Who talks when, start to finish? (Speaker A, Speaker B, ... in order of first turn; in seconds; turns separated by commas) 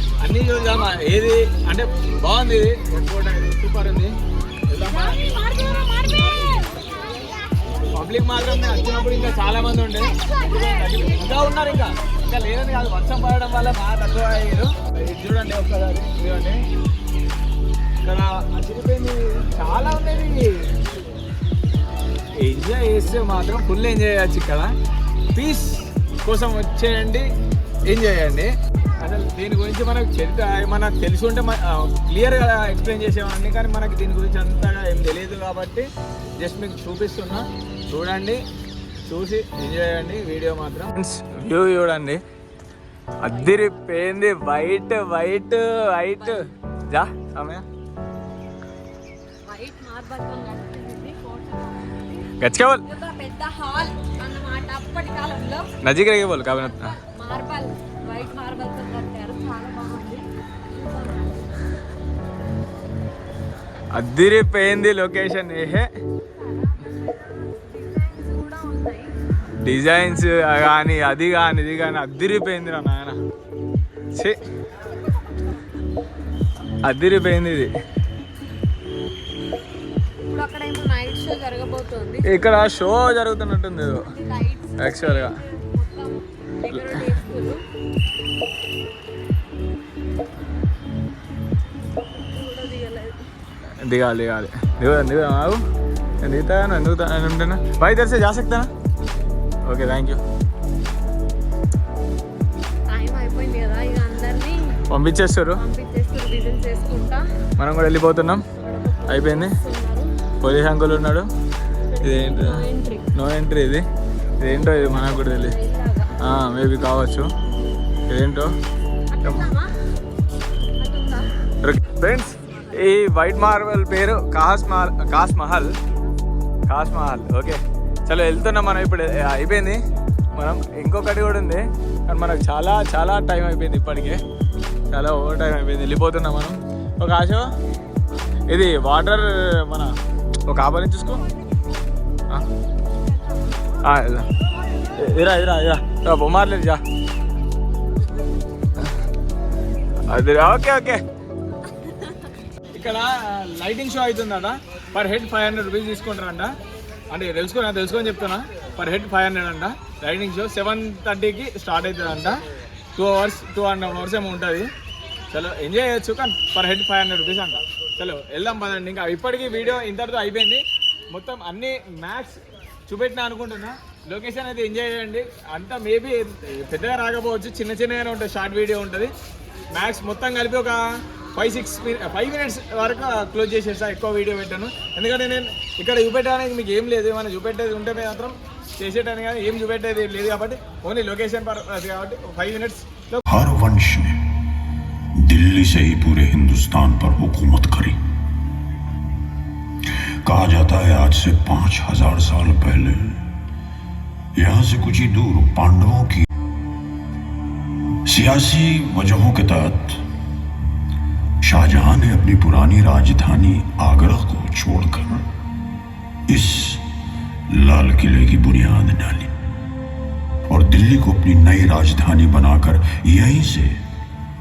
Speaker A: 0.2-4.1, Speaker A: 4.7-5.4, Speaker B: 4.8-7.5, Speaker A: 7.9-16.6, Speaker B: 10.2-11.4, Speaker A: 18.0-20.7, Speaker A: 22.4-24.7, Speaker A: 25.3-27.3, Speaker A: 27.9-35.9, Speaker A: 36.4-38.4, Speaker A: 39.0-42.2, Speaker A: 43.2-46.4, Speaker B: 43.3-43.9, Speaker B: 46.2-46.5, Speaker A: 46.9-47.6, Speaker B: 49.5-52.3, Speaker A: 52.4-52.8, Speaker B: 52.8-61.5, Speaker A: 55.8-57.0, Speaker A: 63.9-65.9, Speaker B: 66.4-69.1, Speaker A: 69.6-73.2, Speaker A: 74.1-74.4, Speaker A: 76.8-77.7, Speaker B: 80.3-82.7, Speaker A: 82.2-84.0, Speaker B: 84.0-87.6, Speaker A: 84.8-85.3, Speaker A: 86.7-87.1, Speaker B: 92.2-93.2, Speaker A: 93.8-95.6, Speaker A: 96.2-98.7, Speaker A: 99.7-100.2, Speaker B: 102.9-104.6, Speaker A: 104.9-105.6, Speaker B: 105.5-107.2, Speaker A: 107.6-108.4, Speaker B: 108.5-110.1, Speaker A: 109.1-109.5, Speaker A: 110.4-111.2, Speaker B: 111.8-113.1, Speaker A: 112.0-112.6, Speaker A: 113.1-113.8, Speaker A: 114.4-115.5, Speaker B: 114.5-116.3, Speaker A: 116.2-117.3, Speaker A: 118.1-118.5, Speaker B: 119.1-119.7, Speaker A: 119.2-119.5, Speaker B: 120.8-121.3, Speaker A: 121.6-125.7, Speaker A: 126.7-129.8, Speaker A: 130.3-134.2, Speaker A: 134.9-137.5, Speaker A: 138.5-139.9, Speaker A: 140.5-141.2, Speaker A: 143.8-144.3, Speaker A: 145.0-146.8, Speaker A: 150.1-151.0, Speaker A: 152.7-156.5, Speaker A: 157.1-162.4, Speaker A: 162.9-164.7, Speaker A: 165.3-179.1, Speaker A: 179.7-180.8, Speaker A: 181.3-193.2, Speaker C: 193.3-194.2, Speaker C: 195.2-198.0, Speaker C: 200.2-203.2, Speaker C: 204.4-206.3, Speaker C: 208.1-210.0, Speaker C: 211.4-215.2, Speaker C: 216.3-216.8, Speaker C: 217.5-219.3, Speaker C: 220.5-223.8